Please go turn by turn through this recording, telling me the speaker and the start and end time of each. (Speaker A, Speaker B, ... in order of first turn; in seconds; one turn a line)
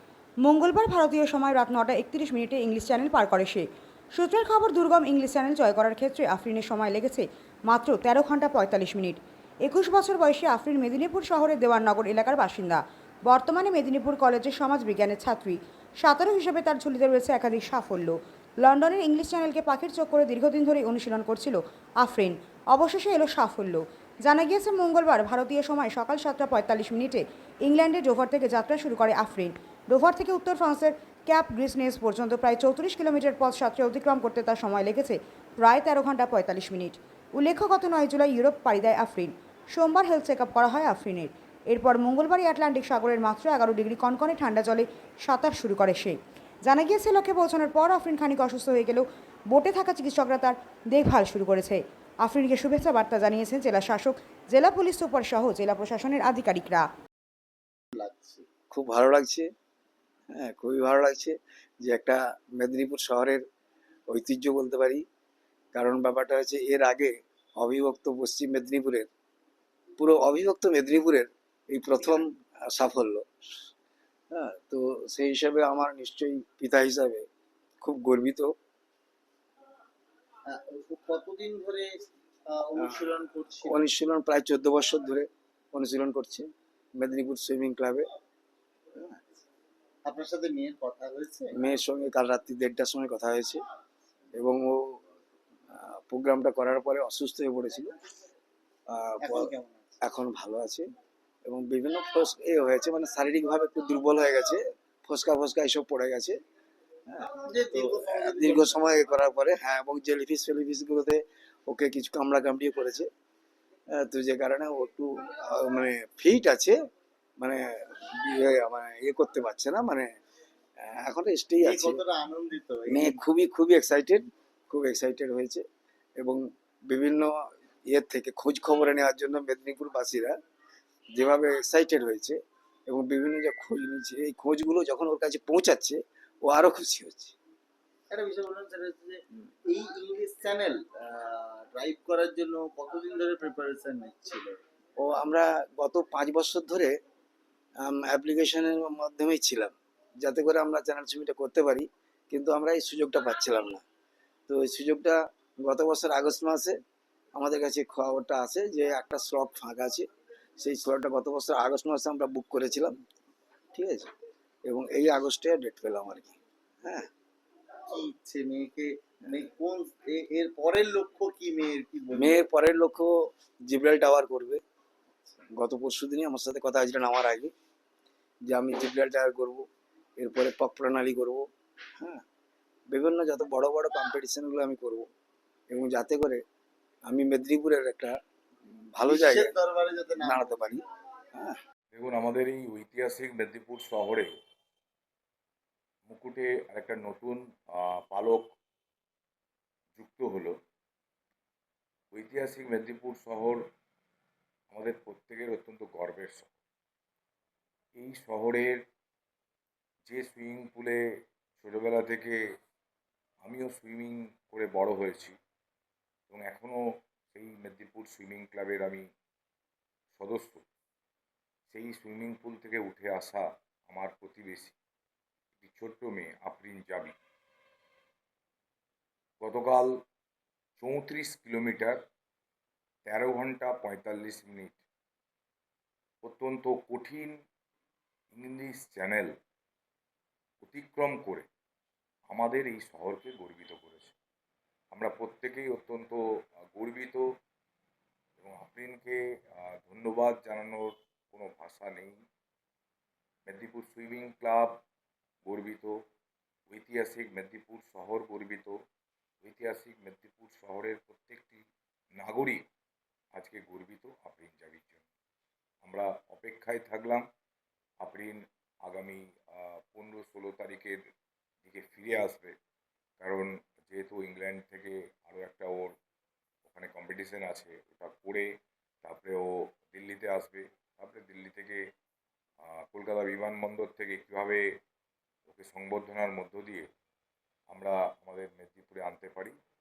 Speaker A: 0.4-56.9
Speaker B: 57.9-58.5
Speaker C: 58.7-59.5
Speaker C: 60.3-63.4
Speaker C: 64.1-65.0
Speaker C: 65.7-69.1
Speaker C: 70.0-73.3
Speaker C: 74.3-77.2
Speaker C: 77.8-78.5
Speaker B: 80.5-83.8
Speaker C: 83.6-86.5
Speaker C: 87.0-88.1
Speaker B: 90.0-91.5
Speaker C: 91.5-93.6
Speaker C: 94.3-95.0
Speaker C: 95.7-97.9
Speaker C: 98.9-99.5
Speaker B: 99.2-100.0
Speaker C: 100.0-100.8
Speaker C: 101.5-106.4
Speaker C: 107.1-113.1
Speaker B: 107.4-108.8
Speaker C: 113.9-116.8
Speaker C: 117.4-120.1
Speaker C: 120.8-122.0
Speaker B: 121.6-123.2
Speaker C: 122.9-125.6
Speaker C: 126.2-127.4
Speaker C: 127.9-130.3
Speaker C: 131.1-132.4
Speaker C: 132.9-137.3
Speaker B: 138.1-144.5
Speaker C: 145.0-146.9
Speaker C: 147.8-153.8
Speaker C: 154.5-156.8
Speaker C: 157.3-160.1
Speaker C: 160.6-163.0
Speaker C: 163.7-164.1
Speaker C: 164.7-167.1
Speaker B: 167.9-172.4
Speaker C: 172.1-173.1
Speaker C: 173.7-174.6
Speaker C: 175.5-177.5
Speaker C: 178.5-179.7
Speaker C: 180.2-181.4
Speaker C: 182.9-185.1
Speaker C: 185.7-186.4
Speaker C: 187.1-188.1
Speaker C: 188.9-189.5
Speaker B: 189.1-190.7
Speaker C: 190.2-191.6
Speaker D: 191.9-194.3
Speaker D: 196.1-198.5
Speaker D: 199.9-200.6
Speaker D: 202.1-203.6
Speaker D: 204.7-206.5
Speaker D: 207.9-208.8
Speaker D: 210.1-211.0
Speaker D: 211.6-212.4
Speaker D: 213.4-215.4
Speaker D: 216.3-219.1
Speaker D: 220.1-220.6
Speaker D: 221.7-224.7
Speaker D: 225.6-227.1
Speaker D: 229.4-230.0
Speaker D: 230.8-232.0
Speaker D: 233.0-234.8
Speaker D: 236.2-237.3
Speaker D: 238.3-239.3
Speaker D: 240.6-241.5
Speaker D: 242.3-244.1
Speaker D: 244.9-246.2
Speaker D: 246.7-247.2
Speaker D: 248.4-252.1
Speaker D: 253.4-254.8
Speaker D: 255.4-255.9
Speaker D: 256.7-258.7
Speaker D: 259.4-261.6
Speaker D: 262.1-262.6
Speaker D: 263.3-265.0
Speaker D: 265.8-267.2
Speaker D: 268.0-271.0
Speaker D: 271.6-272.6
Speaker D: 273.2-275.9
Speaker D: 276.6-278.5
Speaker D: 279.0-281.8
Speaker D: 282.6-284.6
Speaker D: 285.5-286.9
Speaker D: 287.7-289.5